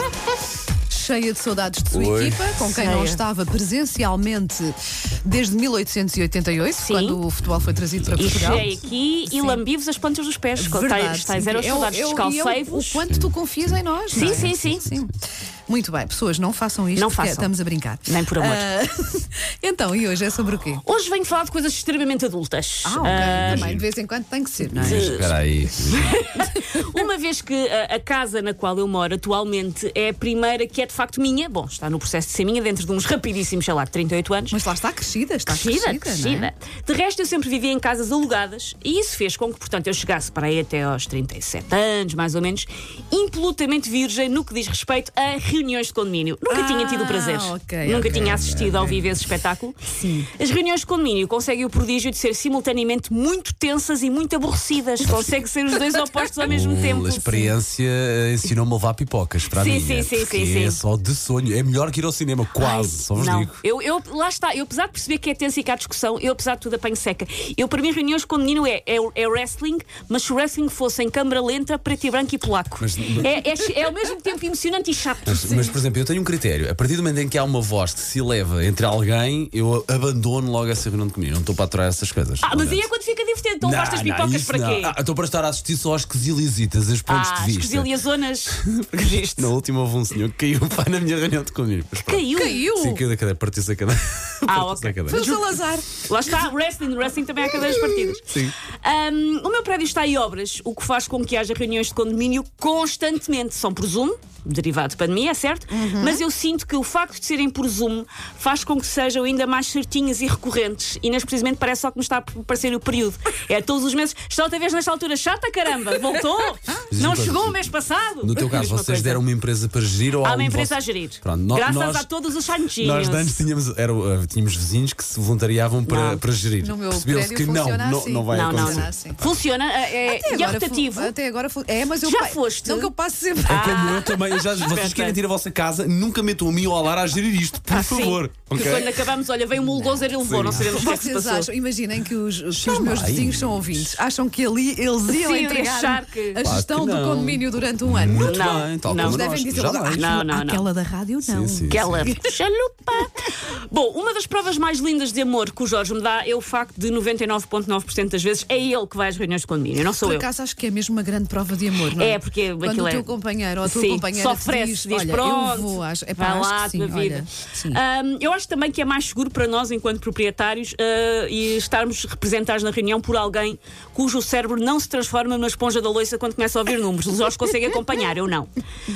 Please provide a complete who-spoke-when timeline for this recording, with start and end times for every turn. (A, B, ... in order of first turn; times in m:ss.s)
0:00.9-0:08.7 A
0:01.9-0:02.6 B
0:02.7-0:03.2 C
0:06.8-0:07.2 C
0:08.0-0:08.8 B
0:08.2-0:13.0 C
0:09.3-0:09.6 A
0:10.6-0:15.1 A
0:13.1-0:15.0 B
0:14.1-0:14.9 C
0:15.7-0:20.8 A
0:17.0-0:17.5 C
0:18.1-0:18.7 C
0:20.8-0:23.7 C
0:22.8-0:25.3 A
0:23.0-0:23.8 B
0:24.7-0:26.2 B
0:24.7-0:34.6 C
0:26.5-0:26.9 A
0:34.5-0:36.5 A
0:35.4-0:57.5 C
0:46.5-0:49.0 A
0:48.2-0:49.0 B
0:50.0-0:50.3 A
0:56.4-1:03.6 B
0:59.5-1:00.8 C
1:02.6-1:15.8 C
1:12.8-1:13.4 B
1:15.2-1:22.9 B
1:22.4-1:25.0 C
1:23.6-1:27.9 B
1:27.1-1:29.5 C
1:28.5-1:35.3 B
1:32.0-1:32.8 C
1:32.3-1:33.0 A
1:34.5-1:59.2 C
1:35.1-1:35.9 A
1:38.2-1:38.6 B
1:45.7-1:46.2 A
1:56.9-2:02.1 B
2:00.2-2:03.4 C
2:02.8-2:09.4 B
2:05.8-2:06.2 C
2:06.6-2:09.2 A
2:08.3-2:11.1 C
2:10.0-2:13.7 A
2:12.0-2:12.9 C
2:13.4-2:15.2 C
2:13.5-2:19.1 B
2:17.7-2:18.0 A
2:17.8-2:21.5 C
2:19.7-2:32.3 A
2:20.2-2:20.8 B
2:22.5-2:23.9 B
2:25.1-2:26.5 C
2:26.4-2:30.1 B
2:28.2-2:30.6 C
2:31.2-2:32.2 B
2:31.7-2:40.2 C
2:40.0-2:47.8 A
2:42.0-2:58.5 C